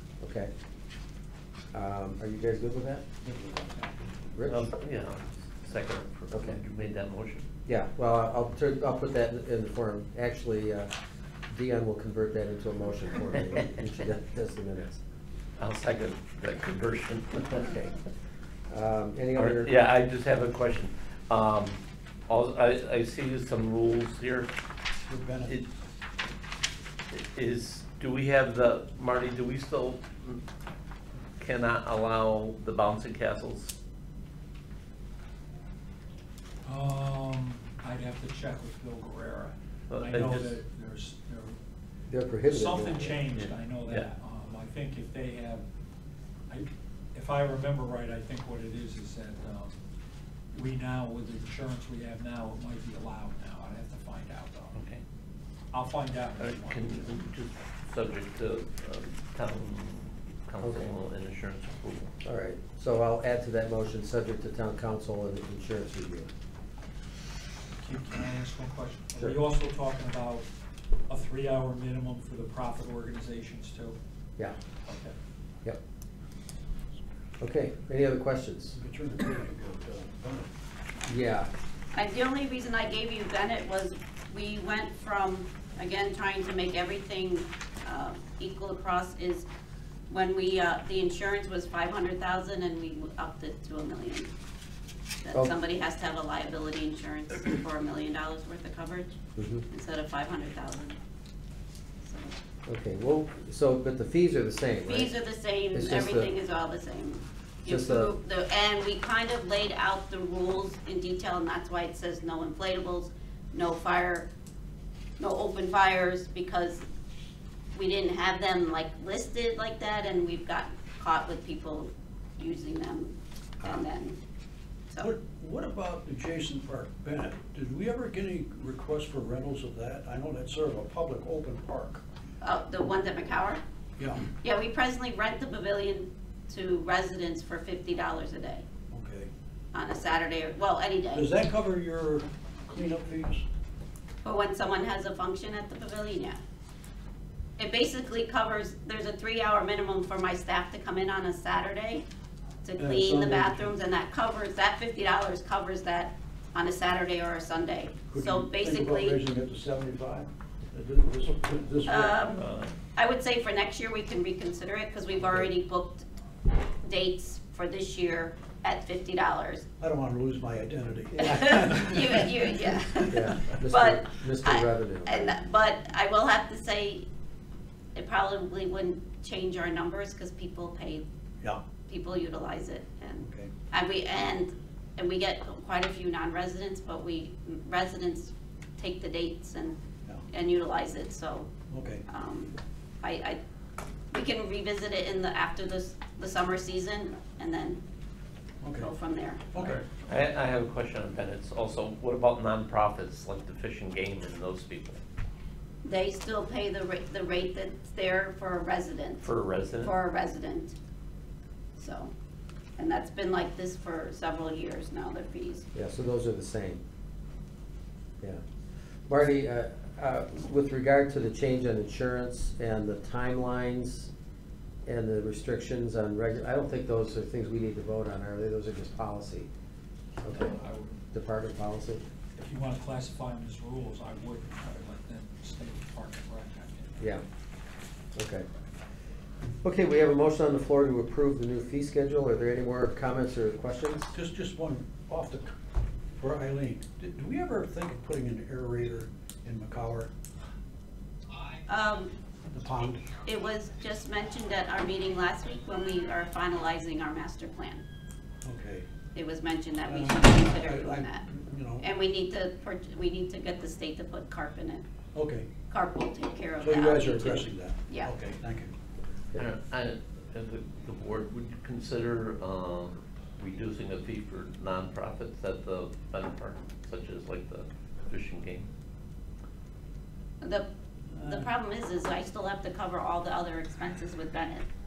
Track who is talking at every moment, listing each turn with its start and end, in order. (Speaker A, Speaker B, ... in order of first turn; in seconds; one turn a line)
Speaker A: 0.2-0.5
Speaker A: 1.7-3.0
Speaker B: 3.2-3.8
Speaker A: 4.3-4.7
Speaker C: 4.5-7.5
Speaker A: 6.3-6.6
Speaker A: 7.7-10.9
Speaker A: 11.5-15.0
Speaker C: 15.6-17.7
Speaker A: 17.5-17.9
Speaker A: 18.7-19.7
Speaker C: 19.4-24.5
Speaker B: 25.1-25.6
Speaker C: 27.1-30.4
Speaker C: 31.4-33.7
Speaker D: 36.6-41.5
Speaker C: 39.9-40.5
Speaker A: 42.1-43.1
Speaker D: 42.4-45.6
Speaker C: 43.3-44.1
Speaker D: 46.5-49.7
Speaker D: 50.5-54.8
Speaker C: 54.7-55.0
Speaker D: 55.7-57.1
Speaker C: 56.4-62.1
Speaker A: 60.6-61.0
Speaker A: 62.2-66.3
Speaker D: 67.8-70.5
Speaker D: 71.1-74.0
Speaker D: 74.9-75.1
Speaker A: 77.4-78.8
Speaker B: 78.7-80.5
Speaker A: 81.1-81.5
Speaker E: 81.9-89.5
Speaker E: 90.1-94.3
Speaker E: 95.2-99.2
Speaker A: 99.4-99.7
Speaker E: 99.7-101.0
Speaker E: 102.0-102.3
Speaker A: 102.7-105.2
Speaker E: 104.9-114.3
Speaker A: 105.7-106.3
Speaker A: 107.7-108.1
Speaker E: 115.2-116.9
Speaker E: 117.7-124.2
Speaker B: 125.0-132.0
Speaker E: 132.4-133.6
Speaker B: 134.0-134.2
Speaker E: 134.4-138.6
Speaker B: 138.9-139.3
Speaker E: 139.7-141.3
Speaker B: 141.1-143.4
Speaker E: 144.2-146.4
Speaker E: 147.6-152.1
Speaker E: 152.6-159.2
Speaker B: 152.8-153.7
Speaker B: 158.1-162.2
Speaker E: 161.8-162.4
Speaker C: 162.3-162.7
Speaker E: 162.9-166.1
Speaker E: 166.8-169.7
Speaker B: 169.8-172.2
Speaker E: 171.2-177.1
Speaker A: 173.1-175.4
Speaker E: 177.9-181.1
Speaker E: 181.9-189.8
Speaker B: 183.2-183.5
Speaker E: 190.3-191.5
Speaker B: 191.7-192.0
Speaker E: 192.1-193.4
Speaker E: 194.1-197.8
Speaker B: 198.6-198.9
Speaker E: 198.8-199.5
Speaker B: 199.5-199.8
Speaker C: 199.6-205.0
Speaker E: 205.8-209.3
Speaker C: 209.2-209.9
Speaker E: 209.8-210.8
Speaker E: 211.8-212.1
Speaker E: 212.8-215.7
Speaker A: 215.7-216.8
Speaker A: 219.1-224.1
Speaker A: 224.9-229.5
Speaker D: 230.2-231.0
Speaker A: 230.2-230.6
Speaker A: 231.1-232.0
Speaker D: 232.4-237.1
Speaker A: 238.2-238.5
Speaker A: 239.6-244.1
Speaker B: 244.1-245.6
Speaker B: 246.2-250.1
Speaker E: 251.7-252.1
Speaker B: 252.5-253.1
Speaker E: 253.2-257.8
Speaker B: 258.4-258.9
Speaker E: 259.1-261.2
Speaker B: 259.9-261.8
Speaker E: 261.8-264.8
Speaker B: 265.1-265.5
Speaker E: 265.7-268.1
Speaker B: 266.6-268.7
Speaker C: 269.4-278.7
Speaker E: 280.4-280.7
Speaker B: 281.1-281.5
Speaker E: 281.2-284.7